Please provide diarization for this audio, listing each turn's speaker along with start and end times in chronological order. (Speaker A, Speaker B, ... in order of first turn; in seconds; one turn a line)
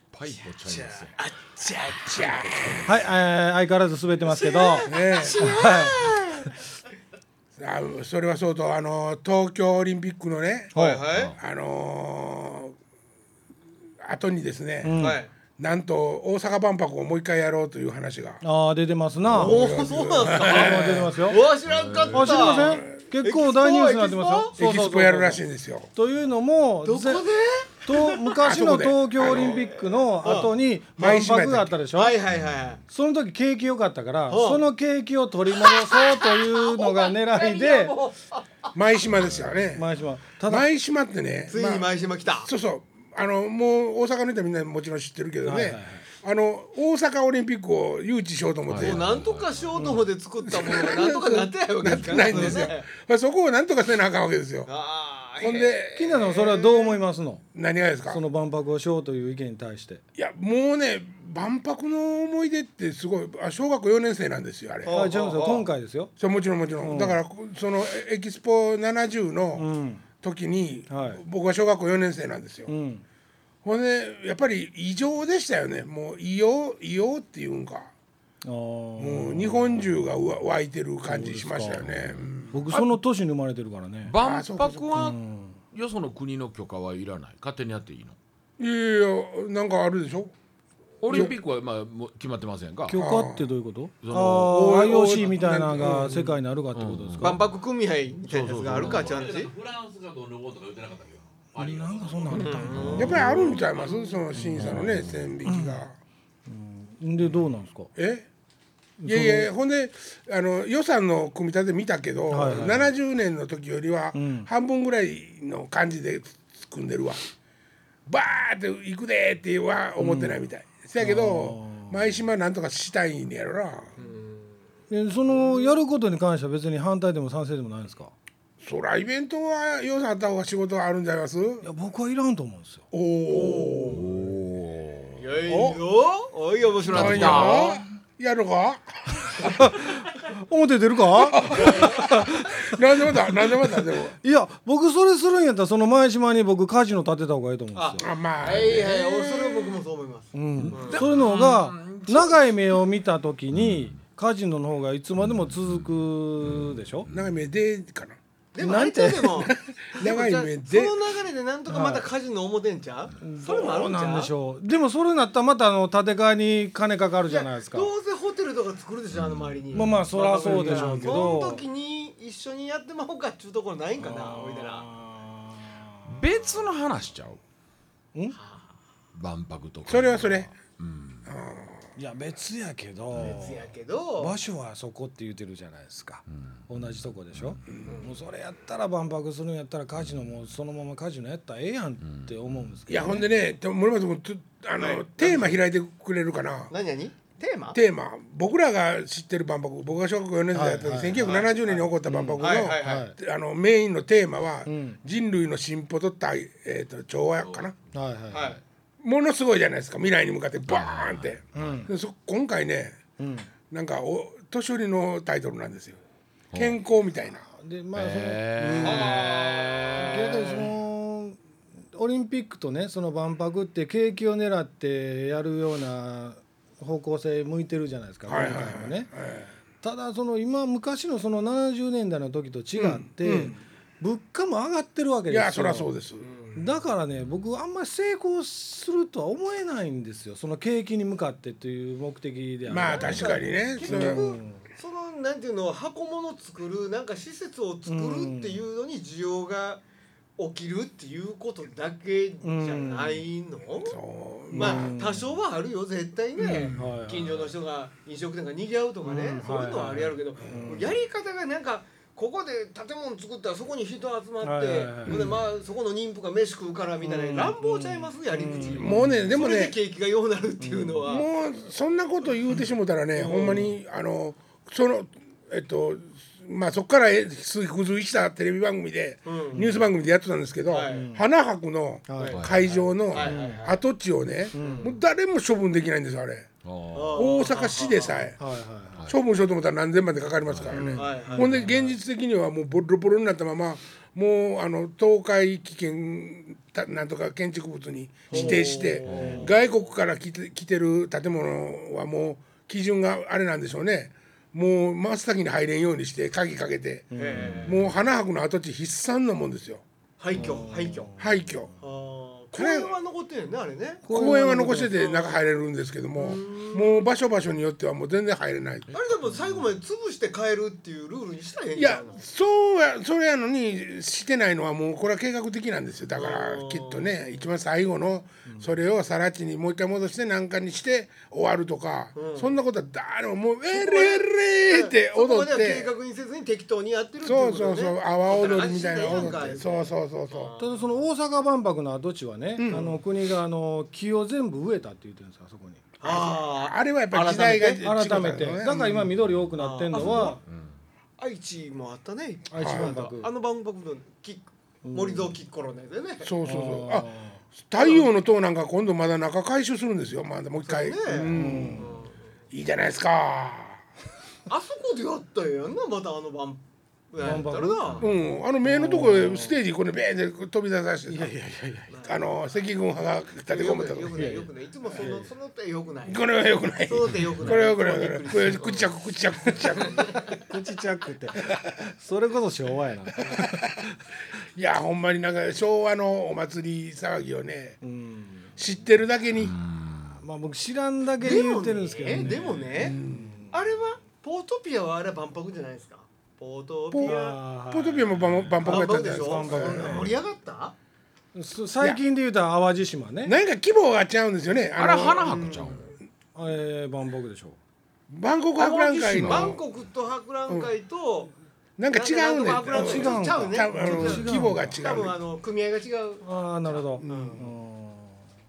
Speaker A: 0.1-1.1
Speaker B: 0.5-2.8
Speaker A: 2.1-3.0
Speaker C: 2.1-2.7
Speaker D: 2.8-6.0
Speaker B: 4.2-6.6
Speaker C: 4.8-5.8
Speaker C: 7.6-10.8
Speaker D: 10.7-11.0
Speaker B: 10.7-11.3
Speaker C: 11.4-12.8
Speaker C: 14.0-18.4
Speaker D: 14.8-15.2
Speaker B: 14.9-15.3
Speaker D: 18.4-19.6
Speaker C: 19.3-21.1
Speaker B: 19.3-24.6
Speaker D: 20.3-21.4
Speaker A: 21.6-22.5
Speaker D: 22.1-25.4
Speaker C: 22.4-23.0
Speaker C: 24.5-25.9
Speaker D: 25.9-27.2
Speaker B: 26.8-28.4
Speaker D: 27.9-32.2
Speaker C: 28.4-29.6
Speaker B: 29.2-30.5
Speaker C: 31.0-31.8
Speaker B: 31.9-32.8
Speaker D: 32.9-38.0
Speaker B: 34.3-34.6
Speaker B: 35.5-38.4
Speaker C: 38.7-39.9
Speaker A: 39.2-39.6
Speaker D: 39.7-40.7
Speaker C: 40.5-49.2
Speaker B: 41.5-42.5
Speaker D: 45.4-46.0
Speaker A: 48.7-49.6
Speaker B: 48.8-52.9
Speaker C: 50.4-54.7
Speaker B: 54.6-57.0
Speaker C: 55.4-56.4
Speaker D: 56.0-57.4
Speaker C: 57.5-58.2
Speaker D: 58.1-60.0
Speaker C: 60.1-65.0
Speaker B: 64.8-65.7
Speaker D: 64.9-66.1
Speaker C: 66.2-69.7
Speaker D: 66.8-67.2
Speaker D: 69.6-70.0
Speaker C: 70.2-72.7
Speaker D: 70.9-71.2
Speaker D: 72.7-73.0
Speaker C: 73.6-77.9
Speaker D: 78.4-79.8
Speaker C: 79.0-82.6
Speaker D: 81.0-84.1
Speaker A: 81.9-83.0
Speaker A: 84.0-85.2
Speaker C: 84.2-84.9
Speaker D: 84.9-85.6
Speaker A: 85.7-88.2
Speaker C: 88.6-90.3
Speaker A: 91.0-93.0
Speaker C: 91.1-91.3
Speaker D: 92.9-97.4
Speaker C: 93.0-93.5
Speaker A: 94.0-94.8
Speaker C: 94.5-96.1
Speaker A: 95.8-97.5
Speaker B: 97.2-99.5
Speaker A: 98.2-99.2
Speaker E: 98.7-103.1
Speaker D: 101.6-103.6
Speaker B: 102.3-103.5
Speaker A: 102.8-103.2
Speaker C: 103.0-106.0
Speaker D: 104.3-104.9
Speaker A: 104.5-105.3
Speaker D: 105.5-105.8
Speaker D: 106.5-107.9
Speaker C: 108.0-108.3
Speaker D: 109.0-109.5
Speaker C: 109.0-117.2
Speaker D: 112.3-112.9
Speaker D: 114.1-114.5
Speaker C: 118.0-123.9
Speaker D: 120.0-120.4
Speaker D: 121.0-122.0
Speaker B: 124.0-124.6
Speaker D: 124.9-128.1
Speaker B: 125.3-125.8
Speaker C: 128.6-131.7
Speaker D: 131.6-132.9
Speaker C: 132.9-134.1
Speaker B: 133.3-134.3
Speaker A: 133.9-135.3
Speaker B: 135.2-137.8
Speaker C: 135.5-135.8
Speaker A: 136.8-137.8
Speaker C: 136.9-139.7
Speaker D: 139.4-142.7
Speaker C: 141.3-144.2
Speaker D: 144.2-148.1
Speaker B: 147.7-151.0
Speaker C: 148.0-149.8
Speaker D: 150.3-157.1
Speaker A: 150.6-152.5
Speaker A: 153.5-154.0
Speaker A: 155.2-157.3
Speaker C: 157.1-158.2
Speaker B: 158.5-164.3
Speaker D: 158.6-159.5
Speaker C: 159.4-161.0
Speaker D: 161.7-162.1
Speaker D: 163.2-167.9
Speaker B: 167.2-174.8
Speaker A: 169.1-170.9
Speaker D: 169.7-171.6
Speaker D: 174.0-176.2
Speaker A: 176.1-177.4
Speaker B: 178.3-178.7
Speaker A: 179.1-181.3
Speaker C: 179.9-180.5
Speaker C: 181.2-181.9
Speaker D: 181.9-193.2
Speaker A: 183.1-183.4
Speaker B: 183.1-184.4
Speaker A: 186.3-187.6
Speaker B: 187.9-188.2
Speaker A: 189.9-190.5
Speaker A: 192.0-192.8
Speaker C: 192.9-196.7
Speaker B: 194.8-195.6
Speaker B: 196.7-197.8
Speaker C: 197.7-207.7
Speaker D: 200.5-201.4
Speaker B: 201.2-201.9
Speaker D: 202.0-203.1
Speaker B: 202.4-203.1
Speaker D: 204.7-205.0
Speaker E: 207.4-207.7
Speaker D: 207.9-208.6
Speaker B: 208.3-208.6
Speaker C: 209.0-213.0
Speaker A: 210.6-211.8
Speaker D: 211.5-211.9
Speaker D: 213.2-213.5
Speaker C: 213.7-216.0
Speaker A: 216.5-216.8
Speaker C: 216.5-217.4
Speaker D: 217.4-221.4
Speaker A: 217.9-220.0
Speaker B: 218.8-220.7
Speaker D: 221.9-229.1
Speaker C: 228.3-229.5
Speaker D: 229.8-235.9
Speaker C: 232.8-233.5
Speaker C: 235.3-236.3
Speaker B: 236.2-236.7
Speaker D: 236.5-244.6
Speaker C: 242.7-244.4
Speaker B: 242.8-249.8
Speaker D: 247.9-248.6
Speaker B: 250.4-254.0
Speaker D: 252.4-253.2
Speaker C: 253.8-254.9
Speaker D: 254.5-255.2
Speaker B: 254.6-271.3
Speaker C: 256.4-256.9
Speaker D: 256.6-257.5
Speaker D: 259.0-260.9
Speaker D: 264.4-265.2
Speaker C: 265.1-265.4
Speaker D: 267.0-269.3
Speaker C: 268.7-269.8
Speaker D: 270.6-271.0
Speaker C: 271.0-286.5
Speaker B: 273.1-273.7
Speaker B: 279.2-279.7
Speaker D: 279.5-279.8
Speaker B: 280.7-281.1
Speaker D: 280.9-281.2
Speaker D: 282.1-282.4
Speaker B: 282.2-283.7
Speaker A: 282.3-282.9
Speaker D: 283.1-283.8
Speaker D: 284.5-284.9
Speaker B: 284.6-285.0
Speaker A: 286.6-287.3
Speaker B: 286.9-288.3
Speaker C: 287.1-288.4
Speaker D: 288.4-289.0
Speaker C: 289.1-307.1
Speaker A: 290.5-291.7
Speaker D: 290.7-291.9
Speaker B: 290.9-291.5
Speaker D: 298.3-299.5
Speaker B: 298.3-299.5
Speaker A: 299.1-299.5
Speaker D: 307.1-307.7
Speaker B: 307.1-307.8
Speaker C: 307.6-309.8
Speaker B: 310.2-311.1
Speaker D: 310.3-311.7
Speaker C: 311.2-311.7
Speaker B: 311.8-314.1
Speaker C: 312.5-312.9
Speaker D: 314.0-314.9
Speaker C: 314.1-318.9
Speaker B: 314.8-315.5
Speaker B: 316.1-317.1
Speaker B: 318.9-322.2
Speaker C: 321.7-335.9
Speaker B: 326.1-327.2
Speaker B: 332.1-332.5
Speaker B: 333.7-341.0
Speaker C: 337.2-340.5
Speaker D: 340.6-345.9
Speaker C: 342.6-342.9
Speaker B: 342.7-343.0
Speaker B: 346.0-347.8
Speaker C: 346.0-349.0
Speaker D: 347.8-350.4
Speaker B: 348.7-349.0
Speaker B: 349.6-350.4
Speaker A: 350.5-350.7
Speaker B: 351.2-356.3
Speaker D: 352.5-353.3
Speaker C: 352.6-352.9
Speaker D: 354.8-355.3
Speaker C: 356.2-361.9
Speaker D: 356.4-357.4
Speaker B: 357.8-358.1
Speaker B: 360.6-362.2
Speaker D: 361.3-361.9
Speaker C: 362.5-363.8
Speaker B: 364.5-368.1
Speaker D: 367.2-368.0
Speaker C: 368.0-371.4
Speaker D: 368.6-369.6
Speaker D: 371.1-371.9
Speaker B: 371.9-372.3
Speaker C: 372.0-374.2
Speaker B: 373.5-376.2
Speaker D: 374.1-375.3
Speaker C: 376.0-380.4
Speaker B: 376.8-380.4
Speaker D: 380.4-383.5
Speaker C: 383.2-383.8
Speaker C: 384.5-387.8
Speaker D: 387.8-388.5
Speaker C: 388.6-389.6
Speaker A: 389.4-390.2
Speaker D: 390.2-393.5
Speaker B: 391.2-397.4
Speaker C: 392.7-393.4
Speaker C: 396.9-400.1
Speaker D: 397.0-400.1
Speaker B: 398.6-400.8
Speaker D: 401.3-403.3
Speaker C: 403.2-405.5
Speaker A: 404.8-405.9
Speaker B: 405.2-405.9
Speaker D: 406.3-407.6
Speaker C: 408.1-409.6
Speaker A: 408.6-409.6
Speaker B: 408.6-411.3
Speaker C: 411.8-415.1
Speaker B: 411.9-417.5
Speaker D: 412.7-414.8
Speaker D: 416.2-418.2
Speaker C: 417.0-417.4